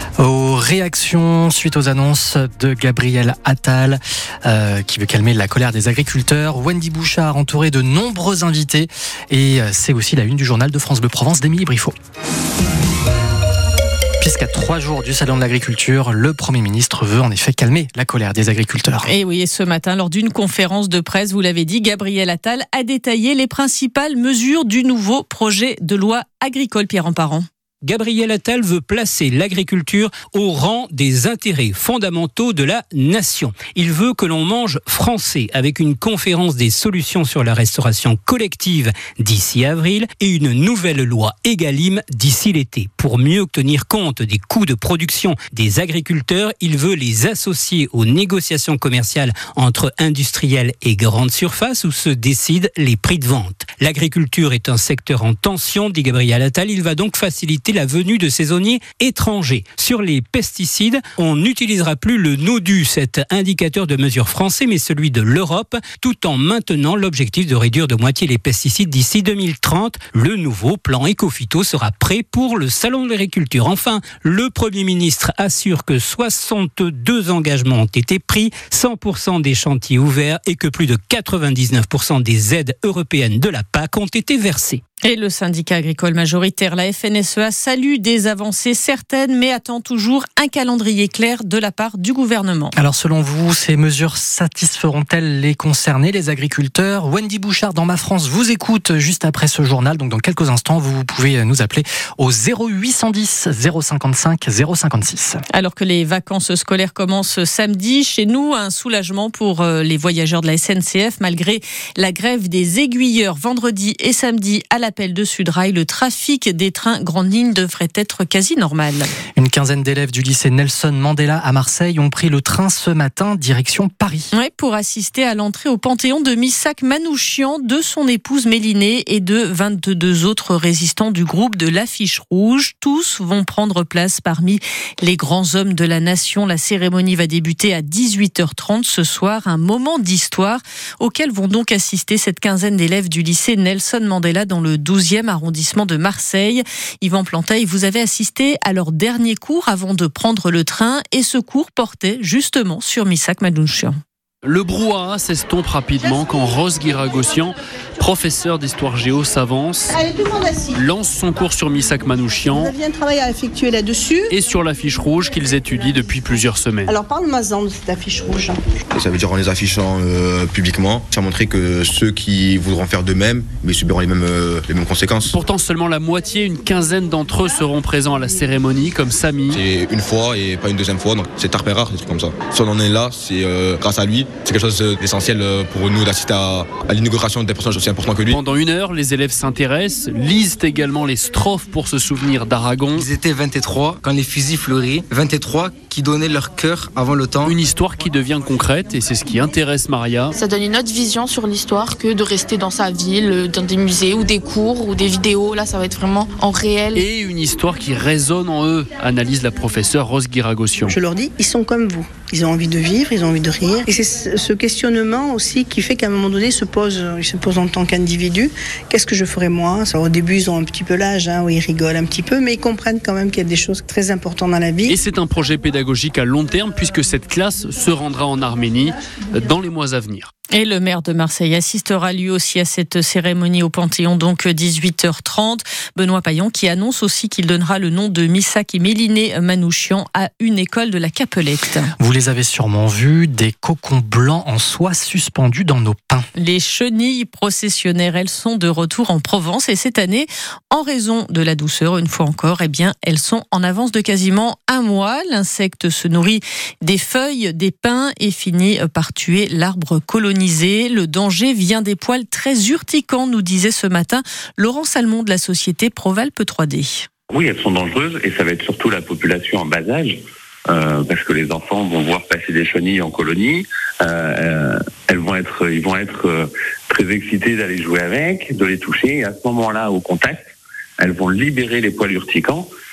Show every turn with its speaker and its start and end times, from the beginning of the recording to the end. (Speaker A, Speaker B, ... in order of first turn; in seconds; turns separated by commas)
Speaker A: 0.2-11.9, Speaker A: 14.2-19.1, Speaker B: 19.0-27.4, Speaker C: 27.8-84.8, Speaker B: 85.0-92.7, Speaker A: 92.8-105.4, Speaker B: 105.5-119.1, Speaker A: 119.3-124.3, Speaker B: 124.3-153.9, Speaker D: 154.4-162.7, Speaker E: 159.9-160.8, Speaker E: 162.5-164.3, Speaker D: 164.3-167.0, Speaker E: 166.8-168.6, Speaker F: 168.9-175.3, Speaker D: 175.3-179.6, Speaker F: 179.5-188.4, Speaker D: 188.2-193.1, Speaker G: 192.9-197.5, Speaker D: 197.4-200.4, Speaker H: 200.4-207.0, Speaker D: 206.9-210.9, Speaker E: 210.9-224.9, Speaker D: 224.8-230.3, Speaker B: 230.5-241.9, Speaker A: 242.0-246.2, Speaker B: 246.3-267.1, Speaker I: 267.3-282.7